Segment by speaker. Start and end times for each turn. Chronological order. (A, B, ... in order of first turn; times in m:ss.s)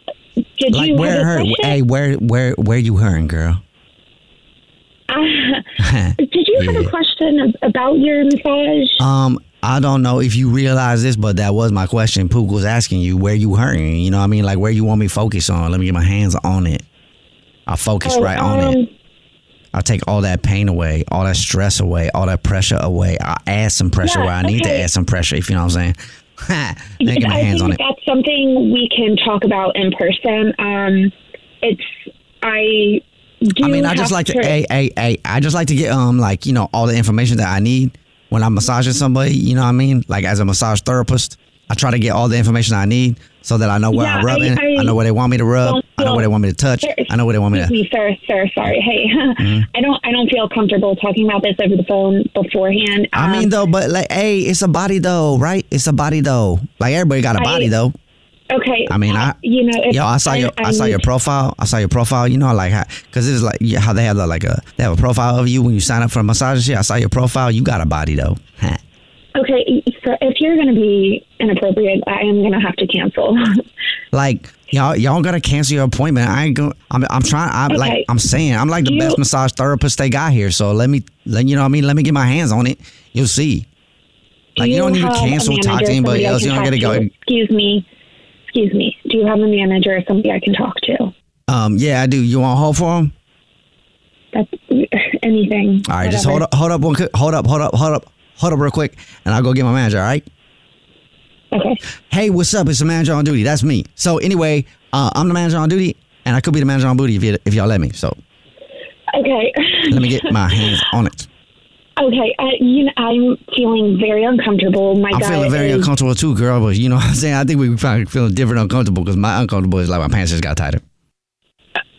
0:00.6-0:01.8 A
0:00.7-0:03.6 B
0:05.1-0:05.6 A
0:05.8-0:06.9 B
0:06.2-0:09.0 A
0:09.0-0:16.8 B
0:17.7-0:18.8 B
0:18.0-0:18.9 A
0:19.7-0:27.8 B
0:24.0-0:24.9 A
0:27.0-0:34.6 A
0:33.6-0:47.8 B
0:43.9-0:45.0 A
0:45.6-0:46.3 A
0:46.8-0:53.5 A
0:49.4-0:49.7 B
0:53.1-0:58.0 B
0:57.4-0:57.7 A
0:58.5-1:01.0 A
0:58.9-0:59.4 B
0:59.9-1:08.8 B
1:09.4-1:13.6 A
1:14.1-1:23.7 B
1:17.7-1:18.1 A
1:18.8-1:19.2 A
1:24.6-1:27.8 A
1:24.6-1:27.1 B
1:28.5-1:31.1 A
1:31.5-1:33.1 B
1:34.3-1:36.4 A
1:35.9-1:40.2 B
1:41.5-1:41.8 A
1:42.1-1:48.2 B
1:49.1-1:50.2 A
1:49.9-1:51.3 B
1:52.0-1:55.9 A
1:55.1-2:00.8 B